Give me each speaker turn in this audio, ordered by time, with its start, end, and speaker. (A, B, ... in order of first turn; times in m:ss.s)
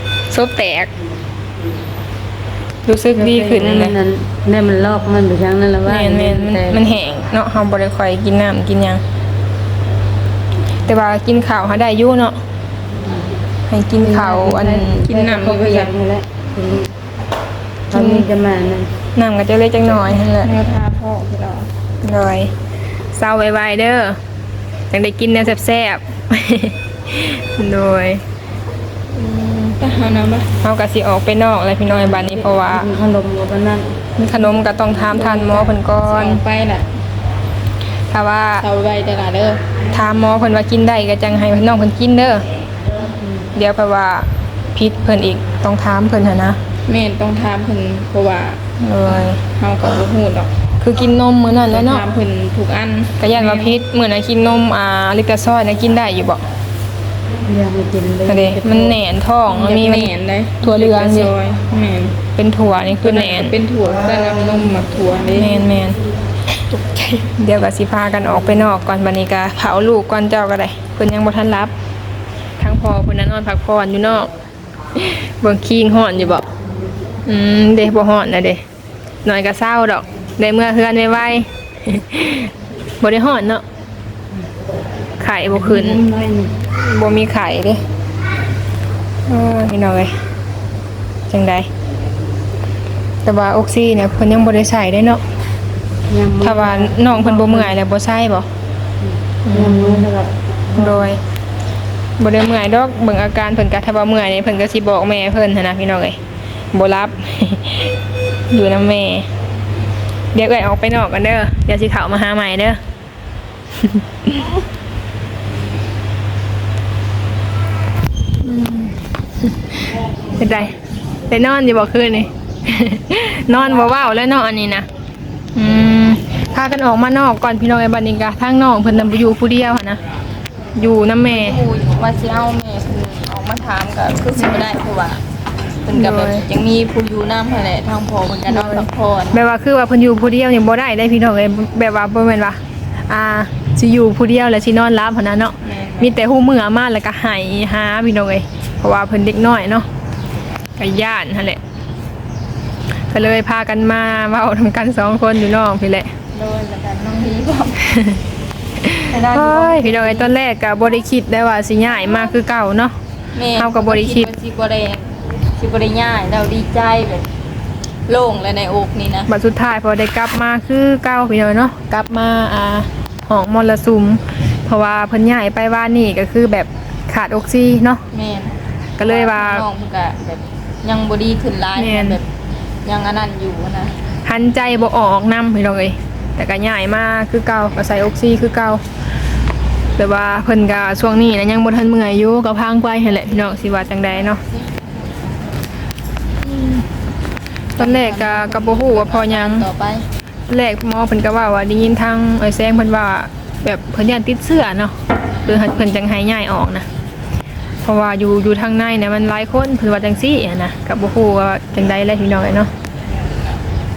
0:00.3-0:00.9 A
0:02.9-0:04.0 A
0:03.1-0:06.8 B
0:05.9-0:09.0 A
0:10.9-0:12.4 A
0:13.0-0:13.3 B
0:13.7-0:15.0 A
0:13.9-0:16.9 B
0:15.0-0:15.9 C
0:17.9-0:18.9 B
0:17.9-0:18.3 A
0:19.2-0:20.5 A
0:20.4-0:21.7 C
0:22.0-0:22.5 A
0:23.1-0:24.2 A
0:24.9-0:28.2 A
0:29.2-0:29.8 A
0:29.8-0:30.5 C
0:30.6-0:32.9 A
0:31.9-0:33.9 B
0:34.2-0:36.4 A
0:35.1-0:36.9 C
0:38.1-0:38.6 A
0:38.6-0:39.6 C
0:39.9-0:42.4 A
0:43.2-0:43.5 B
0:43.5-0:46.6 A
0:46.9-0:48.6 C
0:48.8-0:49.4 A
0:49.4-0:50.5 C
0:50.8-0:52.0 A
0:51.7-0:53.8 C
0:53.2-0:56.4 A
0:57.5-0:59.0 B
0:58.3-1:01.3 A
0:59.5-1:02.2 C
1:02.4-1:03.6 A
1:03.0-1:05.6 C
1:05.4-1:06.0 A
1:06.7-1:11.7 A
1:12.6-1:14.3 A
1:15.0-1:16.4 A
1:17.3-1:18.6 A
1:19.2-1:23.6 A
1:25.2-1:26.0 A
1:25.5-1:26.6 B
1:26.8-1:27.8 A
1:29.3-1:30.2 A
1:31.3-1:31.7 A
1:33.2-1:35.2 A
1:36.1-1:37.8 B
1:36.4-1:38.5 A
1:39.0-1:41.2 B
1:39.4-1:40.1 A
1:40.8-1:41.2 A
1:42.2-1:46.2 A
1:46.7-1:47.9 A
1:48.5-1:49.3 A
1:50.3-1:52.8 A
1:53.8-1:54.5 A
1:58.4-2:00.8 A
2:01.3-2:04.9 A
2:05.6-2:10.0 A
2:10.8-2:11.6 A
2:11.3-2:15.2 C
2:15.8-2:19.4 C
2:15.9-2:16.4 A
2:18.5-2:29.9 A
2:25.6-2:26.2 C
2:30.8-2:31.6 A
2:33.1-2:36.1 A
2:36.3-2:37.8 C
2:37.8-2:38.2 A
2:38.8-2:43.0 A
2:39.1-2:40.3 C
2:43.4-2:47.3 C
2:43.6-2:44.3 A
2:48.1-2:49.3 C
2:49.3-2:58.0 A
2:58.1-3:02.2 C
2:59.0-2:59.6 A
3:01.8-3:02.2 A
3:02.8-3:03.9 C
3:04.2-3:08.8 A
3:10.0-3:14.4 A
3:16.4-3:16.9 A
3:17.8-3:20.1 C
3:17.8-3:19.7 A
3:20.5-3:26.9 A
3:27.8-3:32.7 A
3:33.1-3:33.6 C